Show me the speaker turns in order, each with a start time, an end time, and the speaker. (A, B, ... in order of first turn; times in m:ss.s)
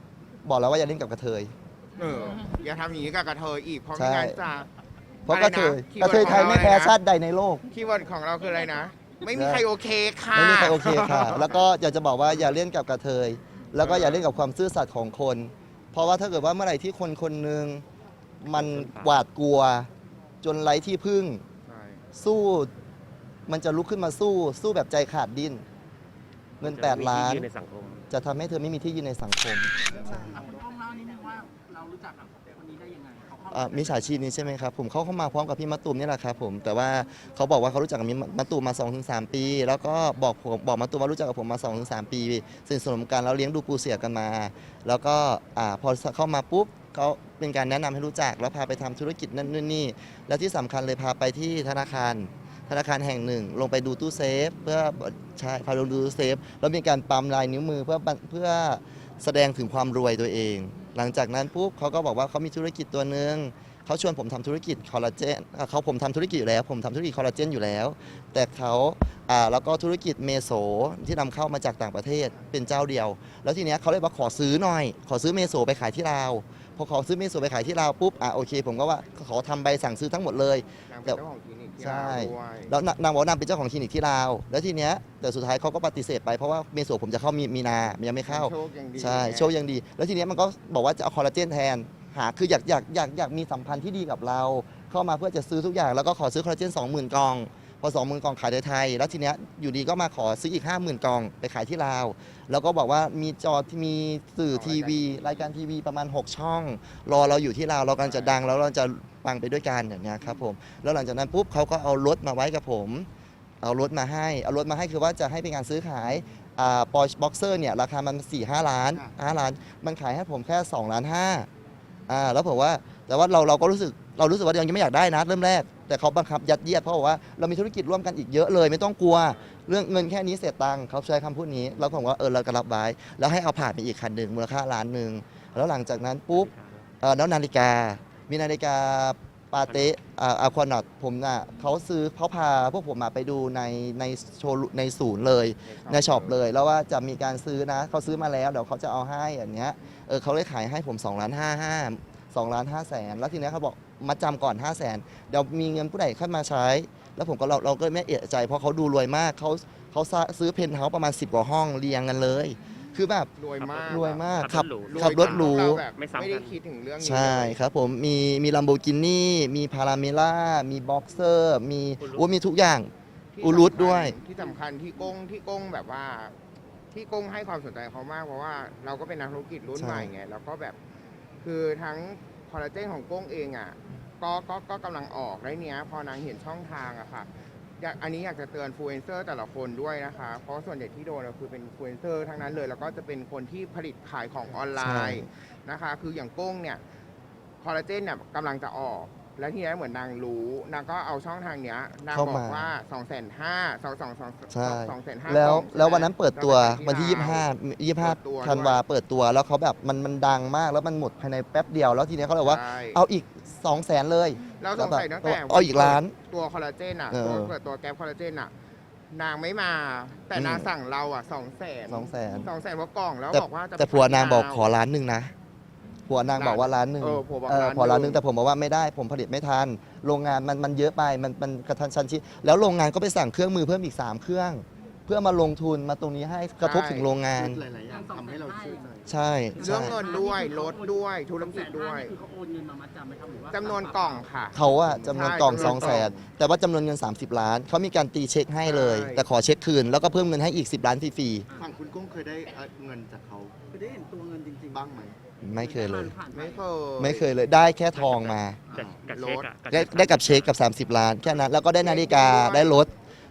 0:00.4-0:01.5 A
0:02.0-0:04.7 B
0:04.0-0:04.4 A
0:05.3-0:07.6 A
0:05.3-0:07.0 B
0:07.7-0:11.6 B
0:09.3-0:09.7 A
0:10.3-0:17.8 A
0:13.8-0:14.3 B
0:18.4-0:19.9 A
0:18.5-0:19.2 C
0:20.4-0:21.4 A
0:21.7-0:22.0 B
0:22.2-0:22.7 A
0:23.5-0:25.6 A
0:26.6-0:27.5 A
0:26.6-0:28.1 C
0:28.1-0:30.4 A
0:29.9-0:34.2 D
0:33.5-1:21.2 A
1:20.9-1:22.8 B
1:21.8-1:53.1 A
1:28.2-1:29.6 B
1:44.5-1:45.5 B
1:48.0-1:48.4 B
1:53.6-2:01.5 A
2:02.1-2:16.5 A
2:09.3-2:09.5 B
2:16.3-2:16.9 C
2:17.0-2:43.3 A
2:19.7-2:20.0 C
2:25.6-2:26.4 B
2:43.4-2:47.6 B
2:43.6-2:46.6 C
2:43.8-2:45.8 A
2:47.0-2:52.9 A
2:52.0-2:52.3 C
2:53.3-2:56.3 B
2:53.4-2:54.2 A
2:56.9-3:00.8 B
2:59.7-3:00.1 A
3:01.4-3:16.8 B
3:14.8-3:15.3 A
3:17.6-3:28.8 B
3:22.1-3:22.7 A
3:24.5-3:36.2 A
3:32.3-3:33.0 B
3:34.6-3:38.5 B
3:37.1-3:37.6 A
3:39.1-3:44.7 B
3:40.3-3:40.7 A
3:41.9-3:42.5 A
3:43.3-3:45.3 A
3:46.1-3:57.6 A
3:46.3-3:48.2 B
3:56.6-3:57.1 B
3:57.3-3:59.1 E
3:57.8-3:59.0 D
3:59.1-4:00.0 A
3:59.5-4:04.3 D
3:59.6-4:02.2 B
4:03.5-4:06.2 B
4:04.5-4:11.5 A
4:04.7-4:06.0 E
4:08.6-4:09.3 B
4:11.6-4:15.2 E
4:13.7-4:14.9 D
4:15.4-4:16.2 A
4:15.5-4:16.6 D
4:16.3-4:17.4 B
4:17.0-4:18.6 A
4:17.9-4:20.6 C
4:18.7-4:19.0 E
4:19.1-4:19.5 B
4:19.7-4:22.9 A
4:21.8-4:22.8 B